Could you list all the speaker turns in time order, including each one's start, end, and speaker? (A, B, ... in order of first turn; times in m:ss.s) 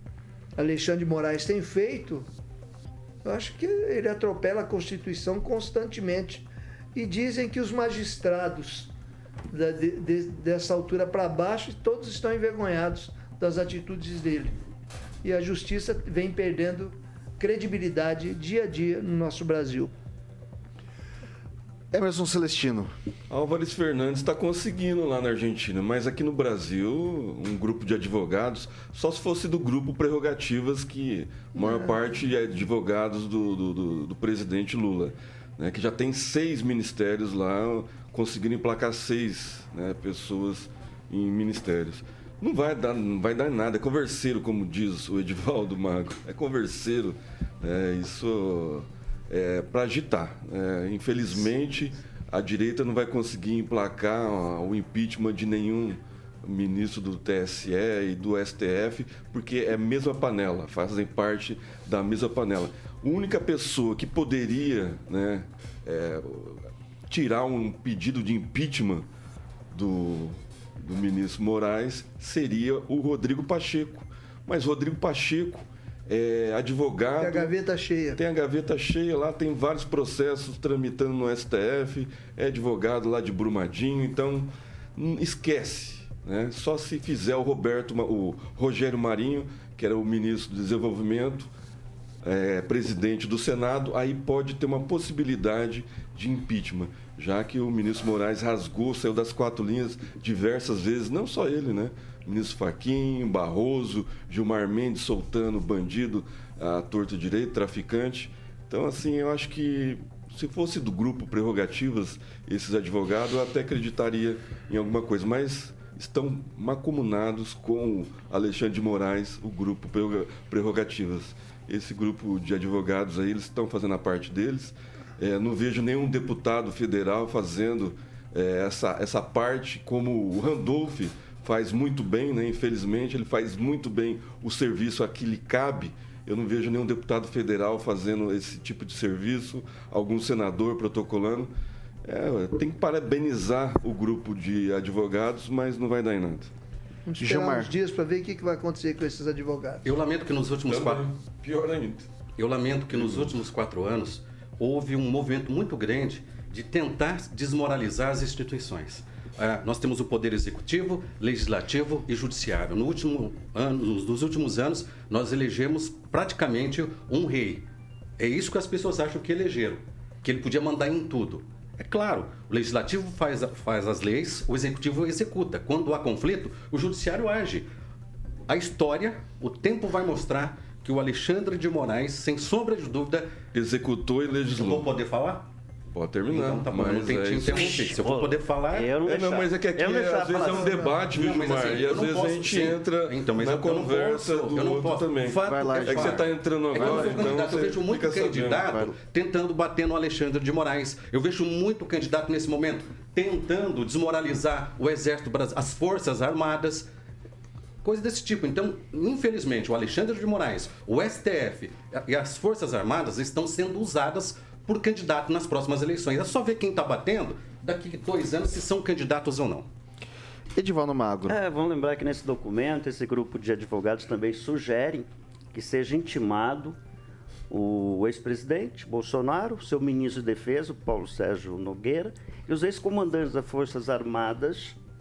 0:00.6-0:02.3 A
0:03.2-0:08.9 A
0:09.5-0:14.6 A
0:15.2-0:19.9 A
0:21.9-0:22.9 B
0:23.3-1:09.0 C
1:09.7-1:17.5 C
1:17.1-1:18.2 A
1:18.2-1:31.5 C
1:32.2-2:21.5 C
2:22.0-2:26.5 C
2:27.0-2:29.8 A
2:27.2-2:27.7 B
2:29.8-2:31.1 D
2:30.7-2:32.1 C
2:32.4-2:47.6 D
2:32.9-2:33.3 C
2:48.2-2:57.7 D
2:58.5-3:03.3 D
3:03.5-3:04.9 C
3:04.4-3:05.4 D
3:05.9-3:07.8 C
3:06.3-3:08.9 D
3:07.5-3:10.9 E
3:09.0-3:18.8 C
3:11.1-3:26.8 D
3:15.4-3:16.3 B
3:16.8-3:17.2 B
3:27.8-3:39.6 D
3:40.5-3:41.4 B
3:41.3-3:46.8 E
3:47.5-3:54.8 E